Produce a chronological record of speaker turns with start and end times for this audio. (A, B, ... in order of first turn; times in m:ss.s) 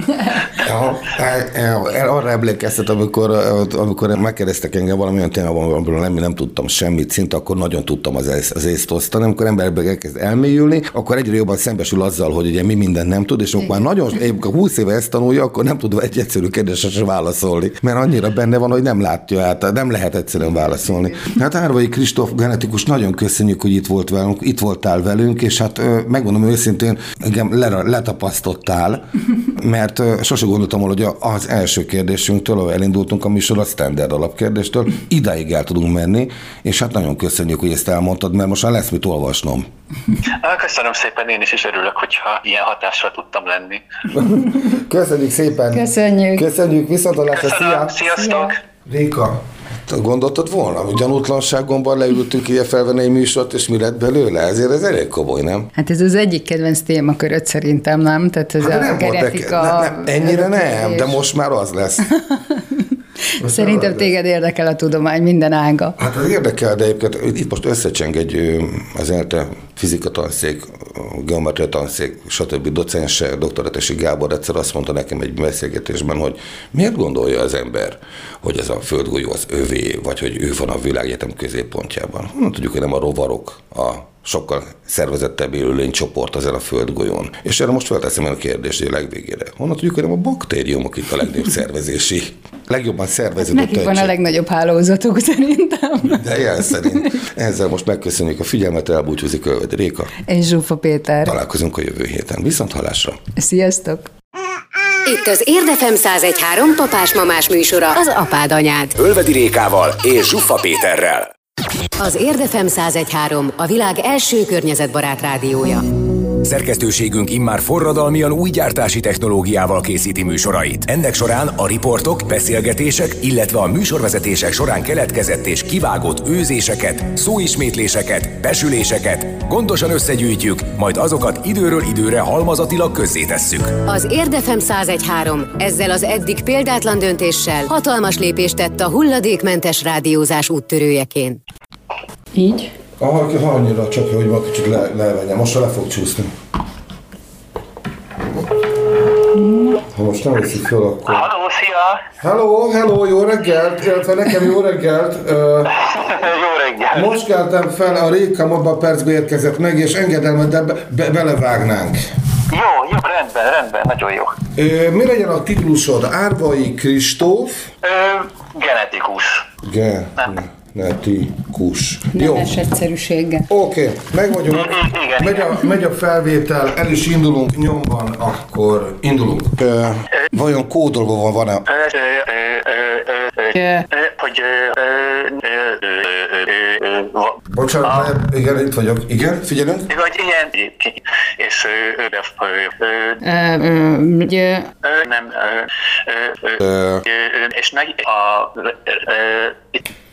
0:00.5-0:39.7 A
0:40.2-0:43.8 B
0:44.1-0:48.0 A
0:45.7-0:46.5 C
0:47.3-0:48.6 B
0:48.9-0:55.7 A
0:55.8-1:01.2 C
0:58.6-1:02.1 A
1:02.3-1:02.8 C
1:03.4-1:06.0 C
1:03.4-1:04.1 A
1:06.0-1:34.1 A
1:33.4-1:37.2 C
1:36.0-1:40.1 A
1:40.2-1:41.4 C
1:41.2-1:43.2 A
1:43.4-1:44.1 C
1:45.0-1:49.0 D
1:49.0-1:51.3 E
1:52.0-1:56.0 D
1:56.4-2:13.8 E
2:13.8-2:21.4 D
2:22.4-2:22.7 C
2:23.0-2:26.3 A
2:29.5-2:29.8 C
2:29.9-2:31.3 A
2:31.1-2:32.0 B
2:32.2-2:35.7 A
2:35.7-2:37.1 B
2:36.9-2:42.1 A
2:42.5-2:44.4 B
2:44.5-2:47.7 A
2:47.8-2:49.5 B
2:49.6-2:52.6 A
2:52.1-2:53.5 C
2:53.5-3:01.6 A
2:54.5-2:55.5 B
3:01.7-3:08.1 B
3:03.6-3:03.8 C
3:07.5-3:09.9 A
3:09.9-3:13.2 B
3:13.2-3:14.7 C
3:14.8-3:19.8 B
3:16.6-3:17.0 A